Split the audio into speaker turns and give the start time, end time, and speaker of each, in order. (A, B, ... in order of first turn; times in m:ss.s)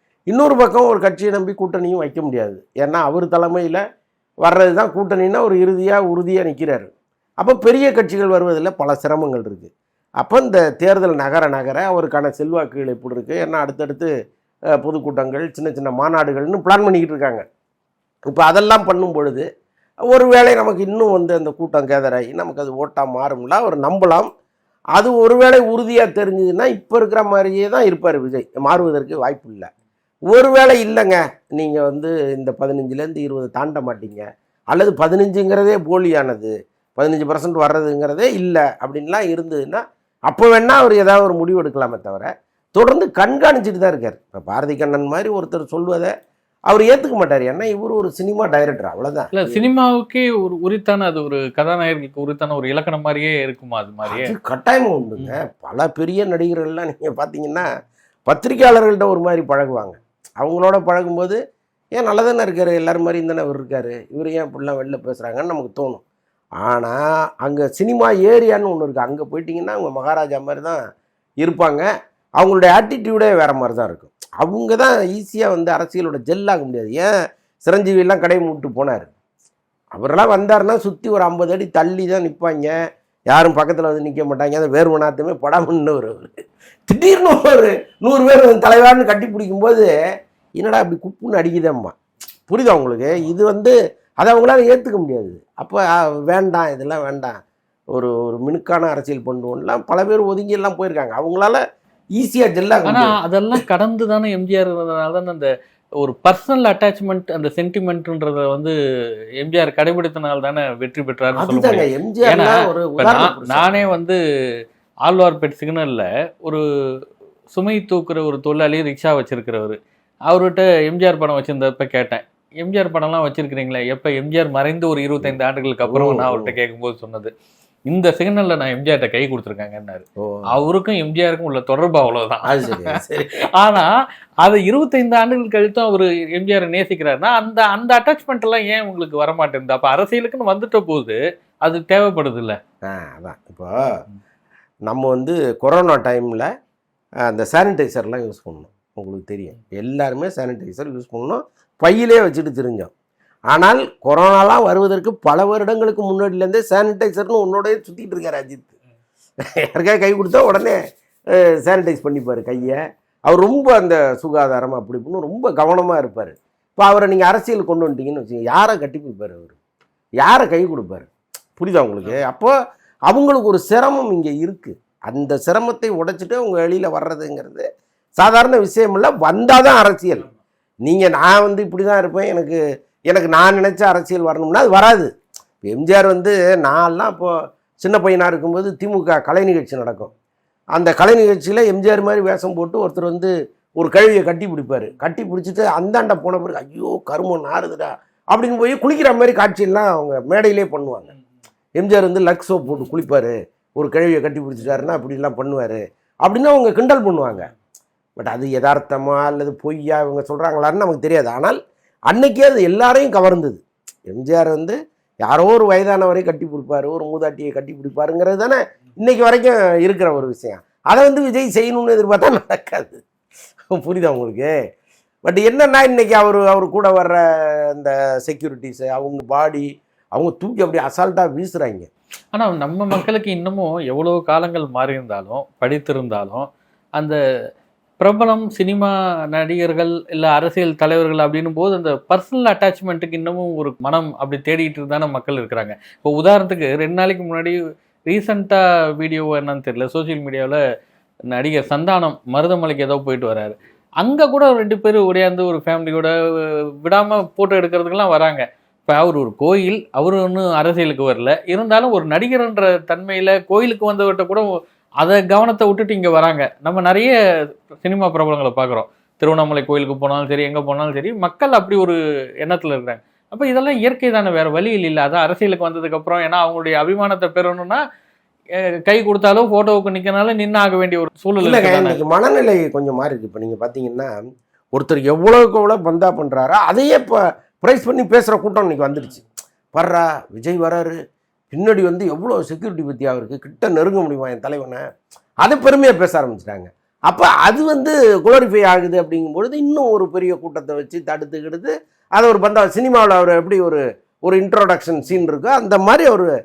0:00.3-0:03.8 A
0:04.4-0:06.9 A
0:07.4-0:14.1 A
0:14.7-0:17.4 A
0:18.3-0:19.4 A
0:20.1-0:24.3 A
0:24.9-0:29.7 A
0:30.3-0:46.1 A
0:46.7-0:49.6 A
0:49.3-0:54.3 B
0:54.0-0:57.7 A
0:58.3-1:01.4 A
1:02.0-1:06.0 A
1:06.6-1:10.8 A
1:11.4-1:11.8 A
1:12.4-1:17.1 A
1:17.6-1:19.1 A
1:20.0-1:22.7 A
1:23.3-1:26.4 A
1:26.9-1:29.9 A
1:30.6-1:31.9 A
1:32.5-1:37.3 A
1:37.9-1:41.6 A
1:42.2-1:43.1 A
1:42.8-1:48.7 B
1:49.4-1:54.2 B
1:51.4-1:53.9 A
1:55.1-1:56.6 B
1:57.5-1:59.8 B
2:00.3-2:07.3 B
2:05.2-2:06.5 A
2:07.9-2:13.0 B
2:10.2-2:10.5 A
2:12.4-2:13.4 A
2:13.6-2:13.9 B
2:14.4-2:22.6 B
2:22.8-2:23.9 A
2:24.9-2:26.5 A
2:27.2-2:32.9 A
2:33.5-2:38.7 A
2:39.6-2:40.8 A
2:41.3-2:49.6 A
2:50.2-2:52.5 A
2:53.1-2:57.6 A
2:58.2-3:00.2 A
3:00.8-3:05.1 A
3:05.6-3:10.1 A
3:10.8-3:21.1 A
3:21.8-3:27.5 A
3:28.2-3:31.6 A
3:32.1-3:43.0 A
3:43.7-3:44.5 A
3:45.2-3:47.2 A
3:47.7-3:51.9 A
3:52.3-3:56.5 B
3:58.0-4:07.6 B
4:08.1-4:10.6 B
4:11.3-4:16.1 B
4:16.8-4:24.5 B
4:25.0-4:27.1 B
4:27.7-4:37.8 B
4:38.8-4:42.0 B
4:41.4-4:44.1 A
4:44.7-4:50.9 A
4:51.5-4:54.8 A
4:55.4-5:06.3 A